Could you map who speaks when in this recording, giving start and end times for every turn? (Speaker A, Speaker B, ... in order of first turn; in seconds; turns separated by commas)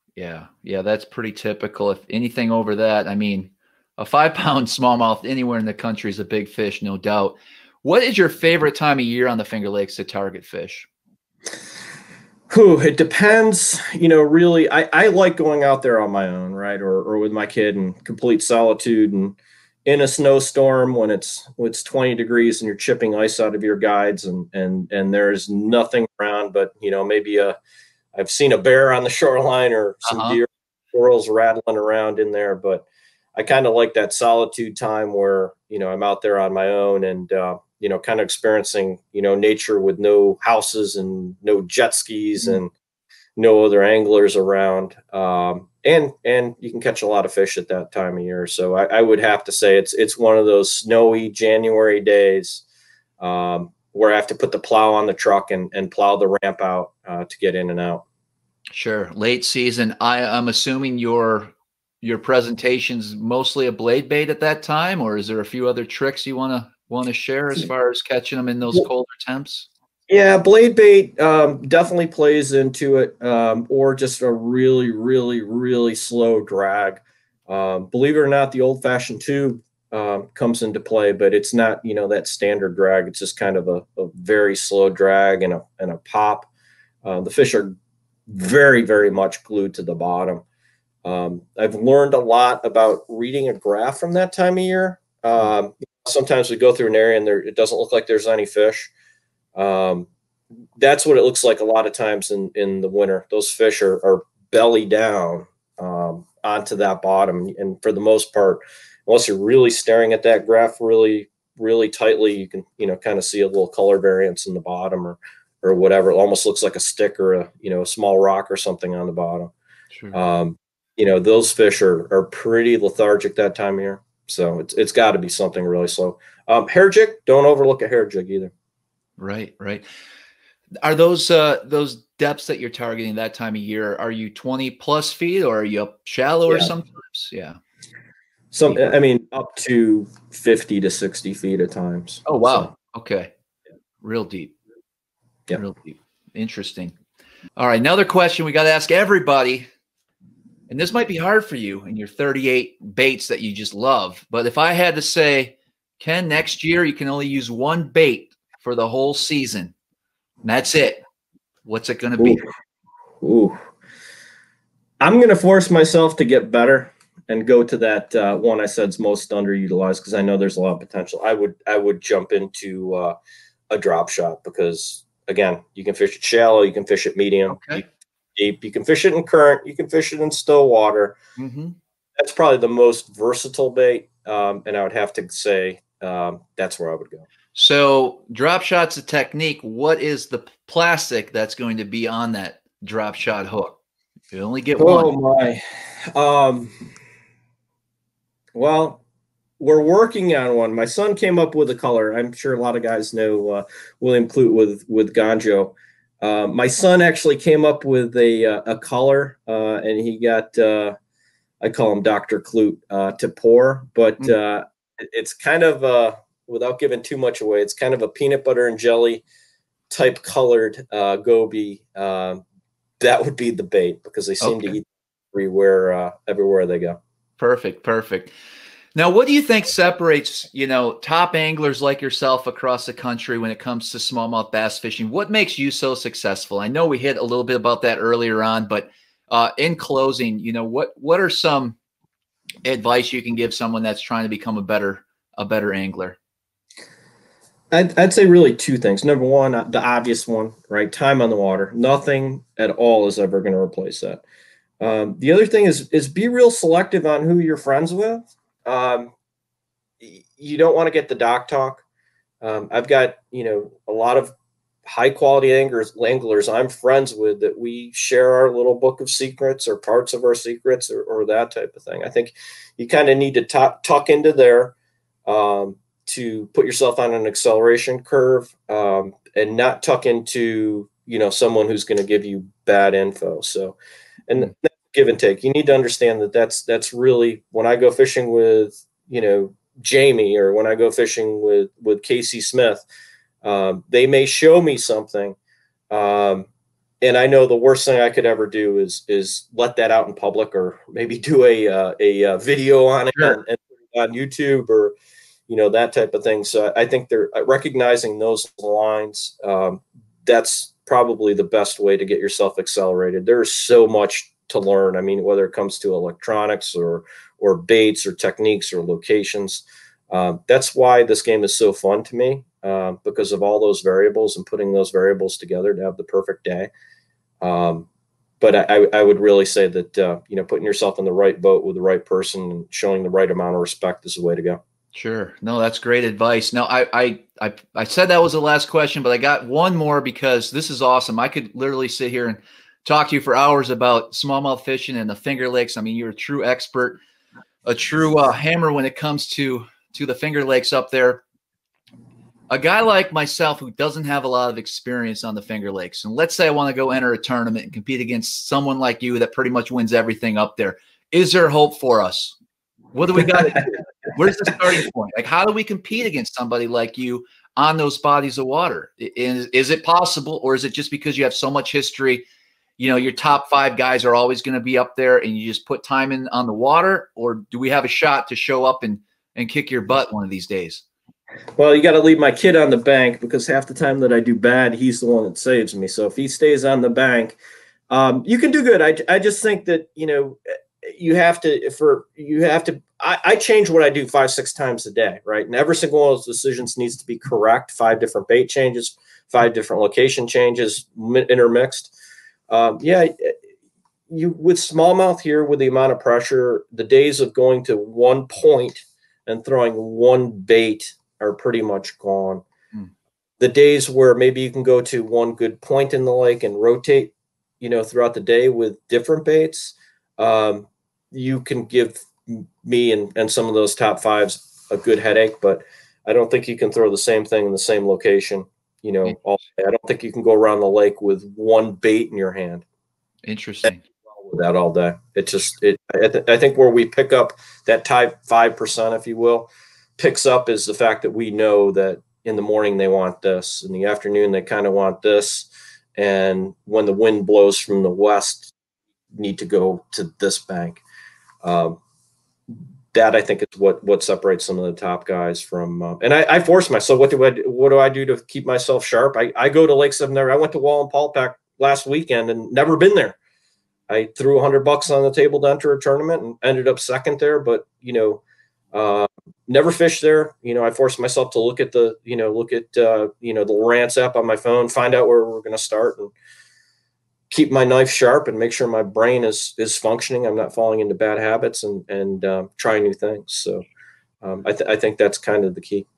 Speaker A: 0.2-10.9, Speaker B: 12.5-27.6, Speaker B: 28.1-42.7, Speaker A: 30.1-30.4, Speaker B: 43.4-52.6, Speaker B: 53.2-58.0, Speaker A: 58.7-69.7, Speaker B: 70.1-86.5, Speaker B: 87.0-90.4, Speaker B: 91.0-98.9, Speaker B: 99.5-100.1, Speaker B: 100.8-119.5, Speaker A: 119.9-120.2, Speaker B: 120.1-128.5, Speaker A: 129.2-129.9, Speaker A: 130.8-137.6, Speaker B: 138.5-142.7, Speaker A: 142.2-143.3, Speaker A: 144.0-144.6, Speaker A: 145.6-146.9, Speaker A: 147.6-149.7, Speaker A: 150.7-159.7, Speaker A: 160.4-161.0, Speaker A: 161.7-162.4, Speaker B: 162.2-162.5, Speaker B: 163.2-163.6, Speaker B: 165.0-173.2, Speaker B: 173.7-181.2, Speaker A: 177.5-177.8, Speaker A: 181.4-181.8, Speaker B: 182.2-187.3, Speaker A: 187.5-193.8, Speaker A: 194.3-195.2, Speaker B: 194.8-196.9, Speaker B: 198.5-199.0, Speaker B: 199.6-211.0, Speaker B: 211.6-219.2, Speaker B: 219.9-222.4, Speaker B: 223.0-227.0, Speaker A: 224.4-224.8, Speaker A: 227.4-228.3, Speaker A: 228.9-241.8, Speaker A: 242.7-246.2, Speaker B: 247.7-254.2, Speaker B: 254.8-259.1, Speaker B: 260.0-261.8, Speaker B: 262.4-274.7, Speaker B: 275.3-283.8, Speaker B: 284.3-292.9, Speaker B: 293.4-295.4, Speaker B: 295.9-296.5, Speaker B: 297.0-304.9, Speaker B: 305.5-326.7, Speaker B: 327.4-327.9, Speaker B: 328.4-334.6, Speaker A: 334.9-347.0, Speaker A: 347.6-351.2, Speaker A: 352.5-362.4, Speaker A: 362.9-372.2, Speaker A: 372.8-380.8, Speaker B: 381.6-387.4, Speaker B: 387.9-401.9, Speaker B: 402.5-403.4, Speaker B: 404.1-412.4, Speaker B: 413.4-432.6, Speaker A: 433.2-433.8, Speaker B: 434.1-448.5, Speaker B: 449.1-450.8, Speaker B: 451.4-451.8, Speaker B: 452.9-463.2, Speaker B: 463.9-468.2, Speaker B: 468.7-476.1, Speaker B: 477.3-483.6, Speaker B: 484.2-485.9